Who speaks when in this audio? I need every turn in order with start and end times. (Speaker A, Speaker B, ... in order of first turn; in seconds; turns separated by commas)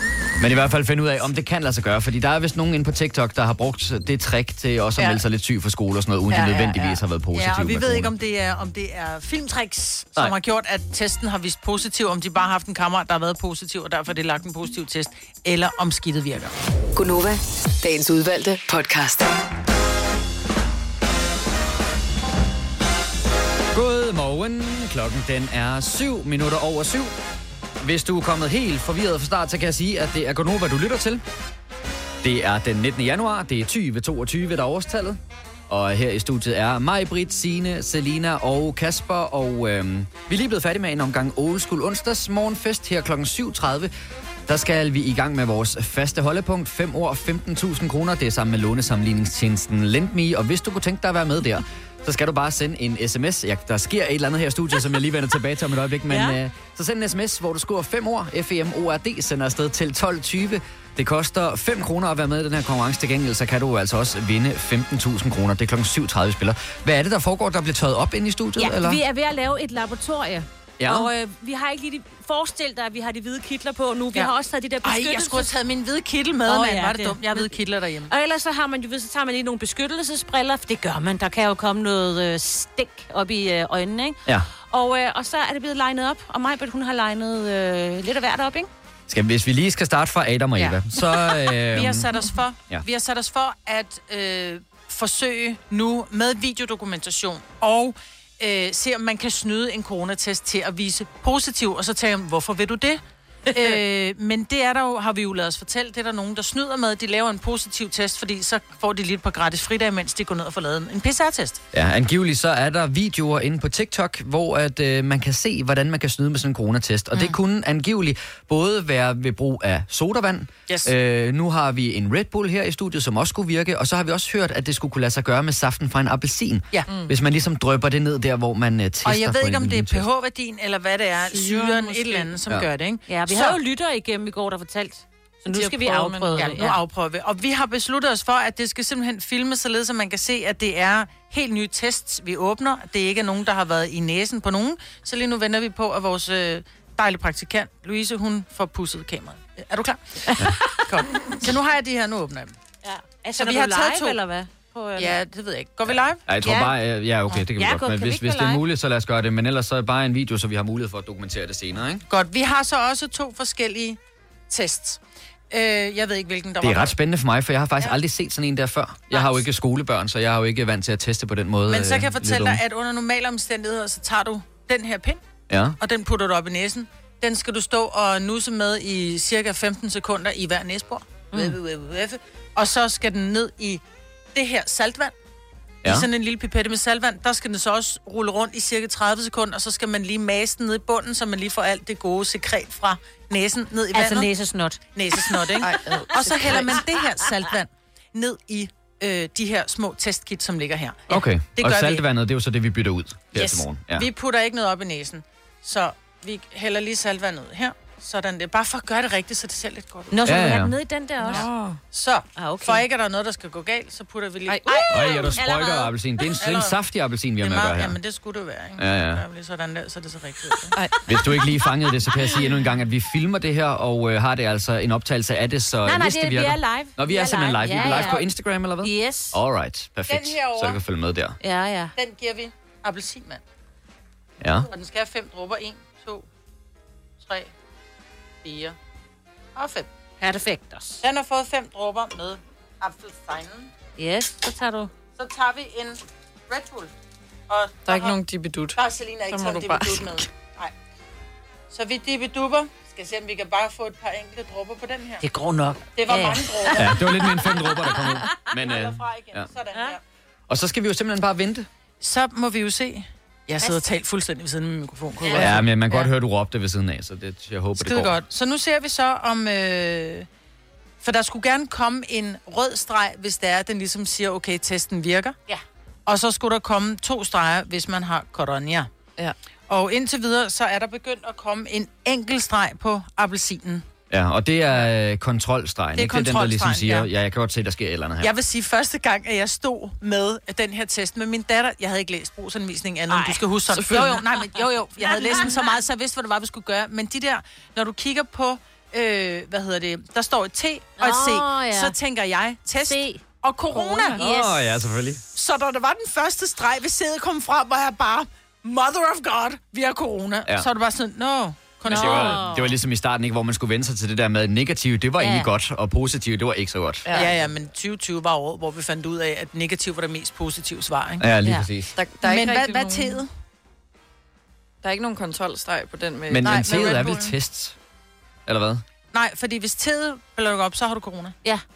Speaker A: 0.4-8.1, Speaker B: 6.3-7.0, Speaker C: 7.3-16.6, Speaker D: 16.9-19.3, Speaker A: 23.7-27.1, Speaker A: 27.8-31.2, Speaker A: 32.2-43.9, Speaker A: 44.5-69.0, Speaker E: 56.1-56.4, Speaker E: 68.6-75.5, Speaker A: 70.8-71.1, Speaker C: 74.8-78.1, Speaker E: 76.5-77.6, Speaker E: 78.1-88.7, Speaker A: 89.1-92.1, Speaker C: 91.6-111.6, Speaker E: 103.5-103.8, Speaker A: 111.7-130.1, Speaker B: 126.9-127.1, Speaker C: 129.0-133.6, Speaker B: 131.2-132.3, Speaker E: 133.1-136.8, Speaker B: 135.5-136.5, Speaker C: 136.3-152.5, Speaker E: 150.3-150.8, Speaker E: 152.8-155.1, Speaker C: 153.3-154.2, Speaker C: 155.0-156.3, Speaker A: 156.3-162.0, Speaker E: 157.5-158.6, Speaker C: 162.1-164.0, Speaker C: 164.5-165.0, Speaker C: 165.5-166.9, Speaker A: 166.6-172.6, Speaker C: 169.1-169.4, Speaker C: 171.7-175.2, Speaker A: 175.5-175.8, Speaker C: 175.8-183.8, Speaker E: 181.3-181.6, Speaker C: 184.3-185.1, Speaker A: 185.8-186.1, Speaker C: 185.8-194.3, Speaker E: 193.9-197.0, Speaker C: 194.9-202.0, Speaker B: 195.6-196.8, Speaker A: 201.1-204.1, Speaker C: 203.3-210.3, Speaker E: 210.1-211.5, Speaker A: 210.2-210.7, Speaker B: 211.2-211.8, Speaker C: 211.3-215.4, Speaker E: 212.3-212.8, Speaker E: 214.5-215.9, Speaker A: 214.9-218.0, Speaker C: 216.4-216.8, Speaker C: 217.4-220.8, Speaker A: 218.8-219.2, Speaker B: 220.7-221.2, Speaker A: 221.1-231.3, Speaker E: 225.8-228.2, Speaker C: 227.7-228.2, Speaker E: 228.8-229.4, Speaker C: 230.1-230.8, Speaker E: 231.4-231.9, Speaker C: 231.9-233.4, Speaker A: 234.4-234.7, Speaker C: 234.7-236.3, Speaker C: 237.2-237.5, Speaker C: 238.4-238.8, Speaker C: 239.6-239.9, Speaker E: 240.2-241.0, Speaker C: 241.0-243.7, Speaker E: 244.0-244.9, Speaker C: 245.2-246.9, Speaker C: 247.5-248.2, Speaker B: 247.8-248.8, Speaker C: 248.8-250.7, Speaker B: 249.3-250.3, Speaker C: 251.7-255.2, Speaker E: 255.2-258.1, Speaker C: 255.9-257.2, Speaker A: 256.7-259.5, Speaker C: 258.5-260.0, Speaker A: 260.5-261.7, Speaker C: 262.0-265.6, Speaker E: 265.2-265.5, Speaker A: 265.3-268.2, Speaker C: 267.8-270.3, Speaker C: 271.0-275.4, Speaker C: 276.1-278.9, Speaker C: 279.7-283.8, Speaker A: 284.1-288.3, Speaker C: 285.9-287.1, Speaker C: 288.2-304.3, Speaker E: 293.1-293.4, Speaker B: 293.7-294.2, Speaker E: 295.0-295.7, Speaker E: 301.0-301.9, Speaker E: 302.8-304.5, Speaker A: 304.1-305.2, Speaker C: 305.3-312.4, Speaker E: 311.9-312.8, Speaker A: 311.9-317.1, Speaker E: 315.2-315.5, Speaker B: 317.1-317.3, Speaker C: 317.1-321.2, Speaker A: 321.2-321.9, Speaker B: 321.9-323.2, Speaker C: 322.2-323.3, Speaker B: 324.8-327.0, Speaker A: 326.3-327.8, Speaker C: 326.4-327.3, Speaker A: 328.4-328.8, Speaker C: 329.1-331.4